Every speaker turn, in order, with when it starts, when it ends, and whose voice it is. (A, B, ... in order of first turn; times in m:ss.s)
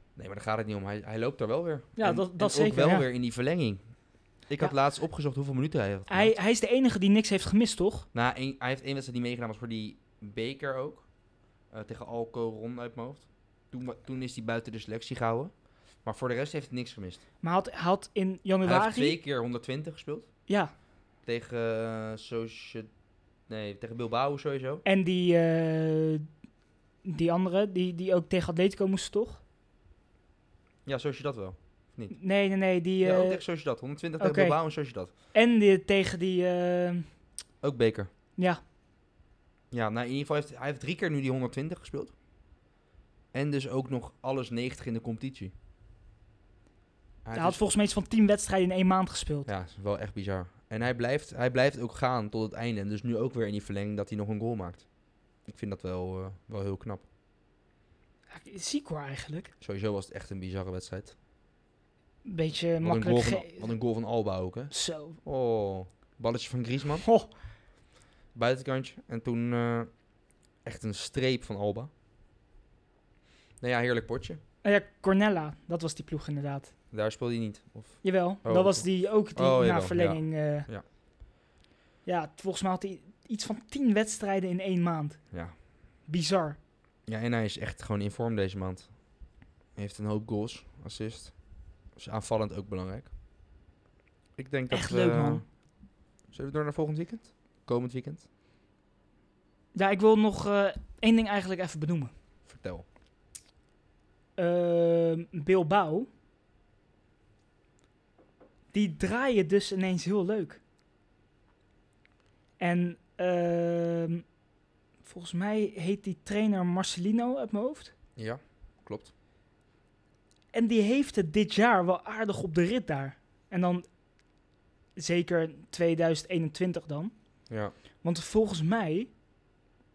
0:00.2-0:03.8 A
0:02.0-0:03.1 B
0:04.5-0:06.3 A
0:06.1-0:08.1 B
0:08.1-0:11.1 A
0:11.7-0:15.5 A
0:16.0-0:17.2 A
0:17.4-0:19.2 B
0:18.6-0:20.3 A
0:20.5-0:20.7 B
0:21.2-0:22.9 A
0:23.5-0:24.8 A
0:24.8-0:26.2 B
0:27.0-0:29.4 B
0:30.8-0:32.2 A
0:32.1-0:33.4 B
0:33.0-0:35.1 A
0:34.2-0:34.6 B
0:35.3-0:37.1 B
0:37.6-0:38.1 A
0:39.7-0:42.1 A
0:43.3-0:45.5 A
0:47.2-0:47.6 A
0:47.4-0:49.5 B
0:49.5-0:54.9 A
0:55.5-0:57.0 A
0:58.3-0:59.5 B
0:59.6-1:01.2 A
1:02.2-1:03.7 B
1:02.8-1:07.0 A
1:04.7-1:05.2 B
1:07.0-1:07.3 B
1:08.3-1:09.9 A
1:10.6-1:11.9 A
1:13.6-1:14.4 A
1:14.6-1:16.7 B
1:16.9-1:20.8 A
1:18.0-1:20.7 B
1:22.0-1:25.2 B
1:26.1-1:26.6 B
1:27.1-1:29.0 A
1:29.8-1:31.4 A
1:32.0-1:33.1 A
1:34.4-1:35.4 A
1:34.7-1:35.4 B
1:36.3-1:38.3 A
1:39.8-1:42.1 B
1:42.5-1:42.8 A
1:44.4-1:46.1 B
1:48.7-1:50.6 B
1:52.6-1:54.2 B
1:55.0-1:57.9 B
1:58.2-1:59.1 A
2:00.5-2:03.9 B
2:05.0-2:07.1 B
2:08.0-2:09.1 B